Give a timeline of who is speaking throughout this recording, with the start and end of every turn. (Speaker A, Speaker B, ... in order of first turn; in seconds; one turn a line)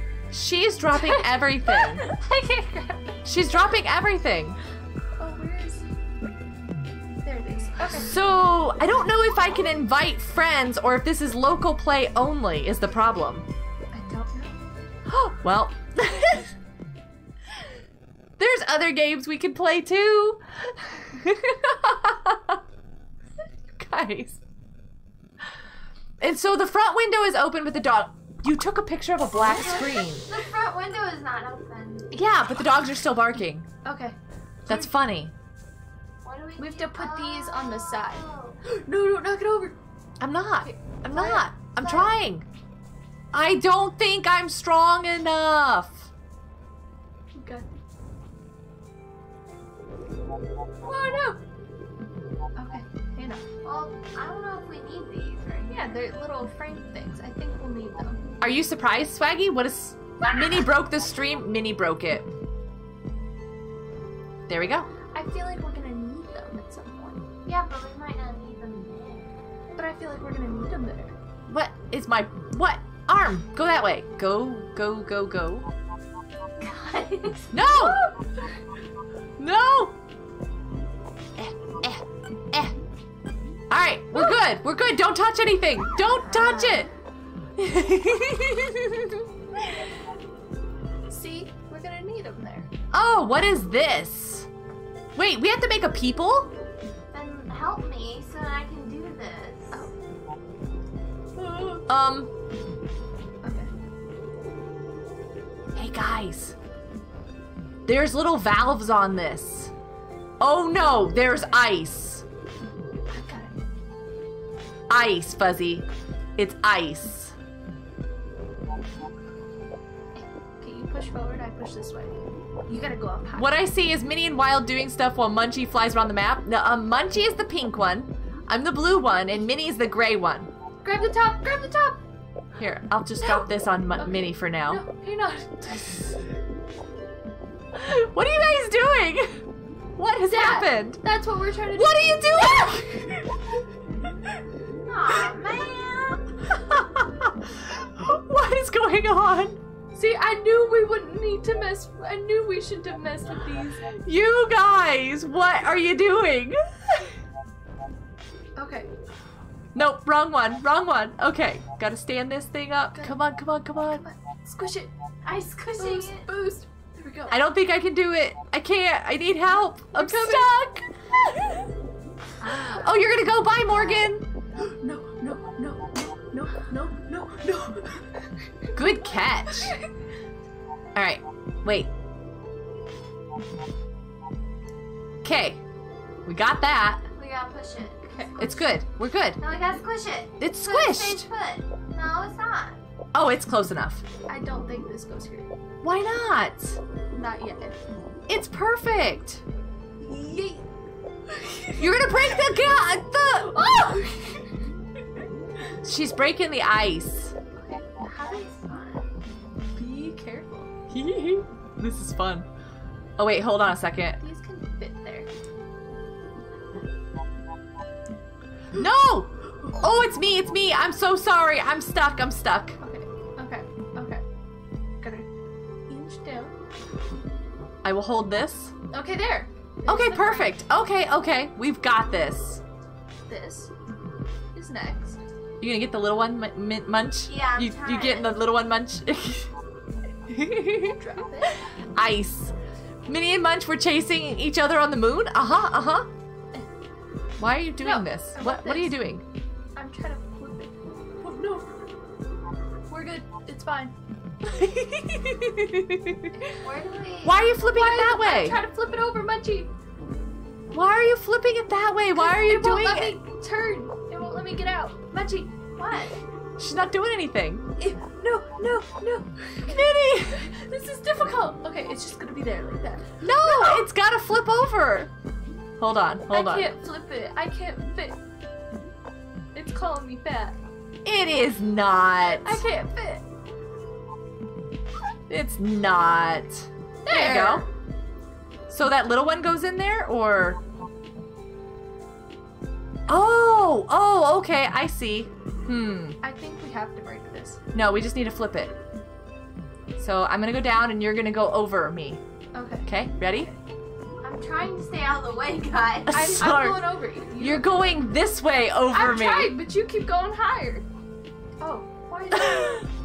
Speaker A: 0.3-2.0
Speaker B: 0.9-3.2
Speaker A: 3.2-4.6
Speaker B: 5.2-5.8
Speaker B: 7.2-8.1
Speaker A: 7.8-13.4
Speaker B: 13.9-14.6
Speaker A: 15.1-16.5
Speaker A: 18.4-22.6
Speaker A: 23.8-24.4
Speaker A: 26.2-30.2
Speaker C: 29.4-32.1
Speaker A: 32.1-33.7
Speaker B: 33.8-34.1
Speaker A: 34.7-35.3
Speaker C: 36.2-38.6
Speaker B: 36.6-39.8
Speaker A: 40.2-42.5
Speaker B: 40.6-42.0
Speaker A: 43.3-46.1
Speaker B: 47.3-47.7
Speaker B: 50.8-51.4
Speaker B: 52.5-53.4
Speaker C: 53.6-56.0
Speaker B: 55.7-58.2
Speaker A: 58.4-62.3
Speaker A: 64.5-64.9
Speaker B: 65.1-67.2
Speaker C: 67.4-69.3
Speaker B: 69.7-71.2
Speaker A: 71.5-75.7
Speaker C: 76.6-77.5
Speaker A: 77.5-78.0
Speaker B: 77.6-78.5
Speaker A: 79.4-79.9
Speaker A: 81.4-82.7
Speaker A: 83.7-86.9
Speaker A: 87.6-89.2
Speaker B: 91.1-92.7
Speaker A: 92.9-94.5
Speaker A: 95.1-96.5
Speaker C: 97.1-99.8
Speaker B: 101.4-101.8
Speaker A: 101.9-102.3
Speaker B: 103.4-103.7
Speaker A: 105.7-106.5
Speaker A: 107.8-109.7
Speaker A: 110.4-112.2
Speaker B: 113.1-113.6
Speaker A: 114.9-117.3
Speaker B: 120.1-122.1
Speaker B: 122.7-123.5
Speaker A: 123.3-130.5
Speaker B: 130.8-132.0
Speaker A: 132.6-134.8
Speaker B: 134.0-136.2
Speaker A: 137.7-139.4
Speaker A: 140.0-141.0
Speaker B: 140.3-142.9
Speaker A: 141.7-143.1
Speaker C: 144.8-146.4
Speaker A: 146.5-149.6
Speaker B: 149.9-153.8
Speaker A: 154.0-157.1
Speaker B: 158.6-158.9
Speaker A: 159.7-164.0
Speaker B: 163.9-164.9
Speaker C: 165.2-166.2
Speaker B: 165.8-167.4
Speaker A: 167.3-170.8
Speaker B: 169.9-170.8
Speaker C: 172.5-172.8
Speaker A: 172.7-174.2
Speaker B: 174.6-179.8
Speaker A: 178.7-179.7
Speaker A: 180.9-181.9
Speaker A: 185.2-185.6
Speaker A: 186.2-187.1
Speaker C: 187.2-188.4
Speaker B: 188.1-188.8
Speaker A: 188.4-189.4
Speaker C: 189.4-192.8
Speaker A: 190.4-191.3
Speaker A: 193.1-194.0
Speaker B: 194.3-195.5
Speaker A: 195.8-196.8
Speaker B: 197.1-197.8
Speaker A: 198.3-199.4
Speaker B: 200.0-200.6
Speaker B: 201.3-202.6
Speaker A: 201.8-203.6
Speaker B: 203.4-204.7
Speaker A: 205.8-207.3
Speaker B: 207.5-208.5
Speaker C: 208.2-209.1
Speaker B: 209.7-210.7
Speaker A: 210.9-212.4
Speaker A: 213.2-214.2
Speaker B: 214.2-215.3
Speaker A: 218.7-222.8
Speaker B: 222.8-224.2
Speaker B: 225.0-225.3
Speaker B: 225.9-226.5
Speaker A: 227.8-228.7
Speaker B: 228.9-230.6
Speaker A: 229.9-232.6
Speaker B: 233.3-233.7
Speaker B: 234.5-235.2
Speaker A: 235.6-239.5
Speaker C: 237.3-238.4
Speaker A: 240.3-242.5
Speaker B: 240.9-241.6
Speaker A: 243.1-246.1
Speaker A: 247.4-249.2
Speaker B: 247.8-249.0
Speaker B: 249.7-251.7
Speaker B: 252.9-253.9
Speaker A: 254.4-256.4
Speaker C: 256.6-257.5
Speaker A: 257.2-258.6
Speaker B: 257.7-259.7
Speaker A: 260.7-263.1
Speaker B: 262.1-265.6
Speaker C: 265.8-266.2
Speaker A: 266.6-267.6
Speaker B: 267.8-273.8
Speaker A: 269.6-270.5
Speaker A: 273.2-275.1
Speaker A: 275.8-276.7
Speaker B: 276.3-278.2
Speaker B: 279.5-280.6
Speaker A: 281.0-282.6
Speaker B: 282.4-283.2
Speaker A: 285.3-287.7
Speaker B: 287.1-287.6
Speaker C: 287.1-287.6
Speaker A: 288.7-290.6
Speaker A: 293.1-296.2
Speaker B: 296.2-297.6
Speaker A: 297.7-298.7
Speaker A: 300.0-302.2
Speaker B: 302.5-303.5
Speaker A: 302.9-303.5
Speaker C: 304.2-306.4
Speaker A: 306.1-306.8
Speaker B: 306.1-307.7
Speaker A: 307.4-309.6
Speaker B: 308.9-310.9
Speaker B: 311.6-312.8
Speaker A: 312.3-312.9